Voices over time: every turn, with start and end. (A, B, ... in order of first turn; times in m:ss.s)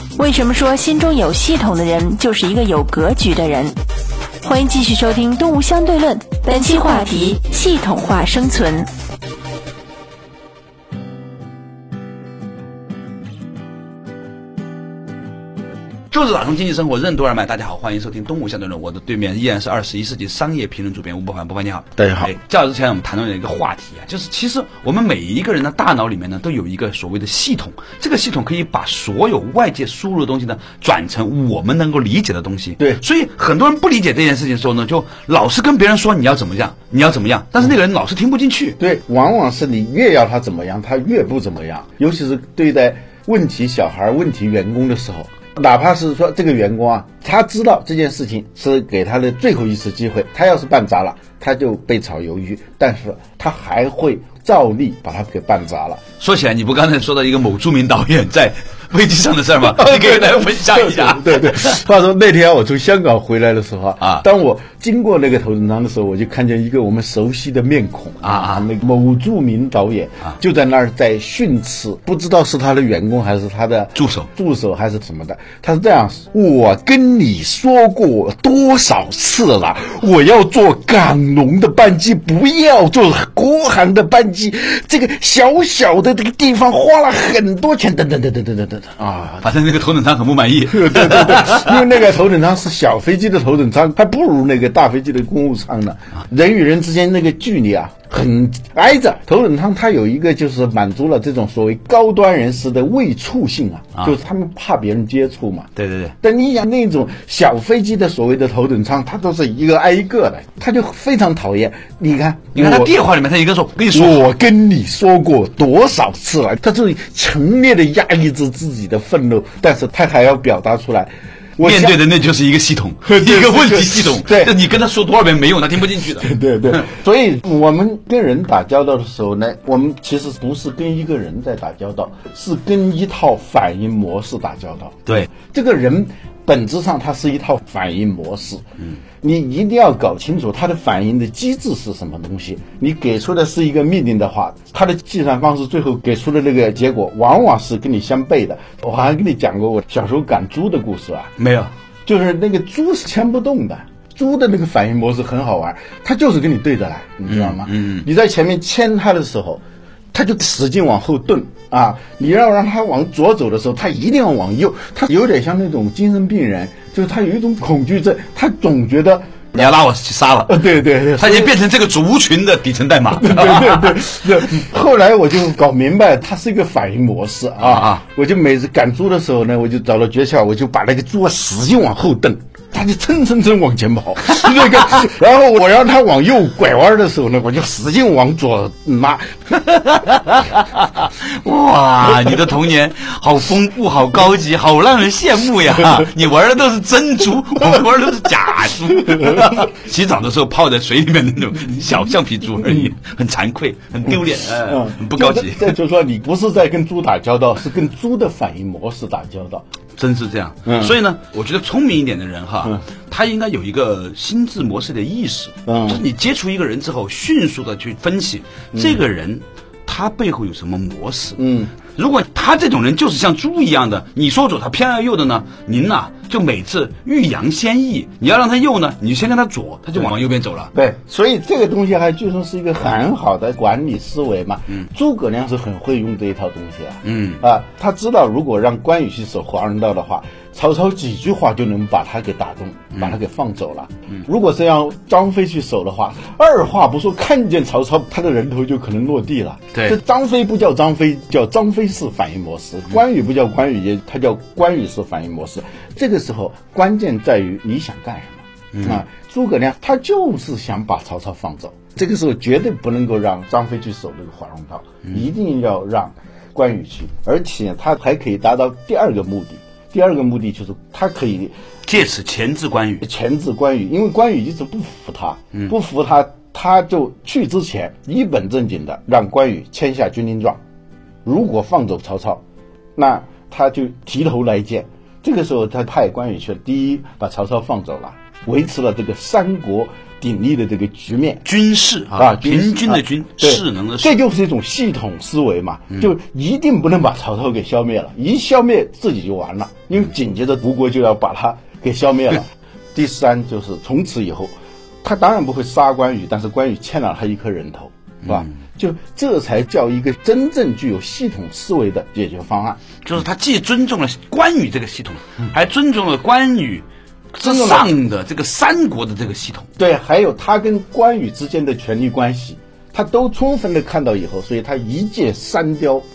0:00.2-0:03.8 A
0:04.4-0:08.9 A
0:16.1-0:38.8 B
0:22.0-0:22.3 C
0:38.8-0:56.0 C
0:56.2-1:01.8 B
0:59.6-1:29.5 C
1:08.2-1:08.6 B
1:14.0-1:14.3 B
1:29.4-1:31.8 B
1:30.7-1:45.7 C
1:45.8-1:46.1 B
1:46.2-1:53.0 C
1:52.6-1:54.2 B
1:53.9-2:02.0 C
2:01.6-2:06.8 B
2:03.0-2:04.6 C
2:06.2-2:18.6 C
2:19.2-2:31.3 C
2:31.4-2:31.7 B
2:32.1-2:49.7 C
2:37.3-2:38.1 B
2:49.6-2:54.4 B
2:50.5-2:51.6 C
2:53.2-3:09.4 C
2:57.6-2:58.0 B
3:09.7-3:25.8 B
3:19.1-3:19.6 C
3:24.6-3:29.6 C
3:30.0-3:50.7 B
3:30.7-3:31.0 C
3:35.7-3:36.0 C
3:38.7-3:39.0 C
3:41.4-3:41.7 C
3:50.8-4:31.6 C
3:57.0-3:57.4 B
4:18.7-4:19.0 B
4:31.9-4:33.0 B
4:33.0-4:40.6 C
4:41.2-4:42.4 C
4:43.0-4:51.5 C
4:51.5-4:54.1 B
4:52.1-5:12.8 C
5:08.2-5:08.5 B
5:13.0-5:19.7 B
5:17.4-5:17.9 C
5:19.8-5:26.1 C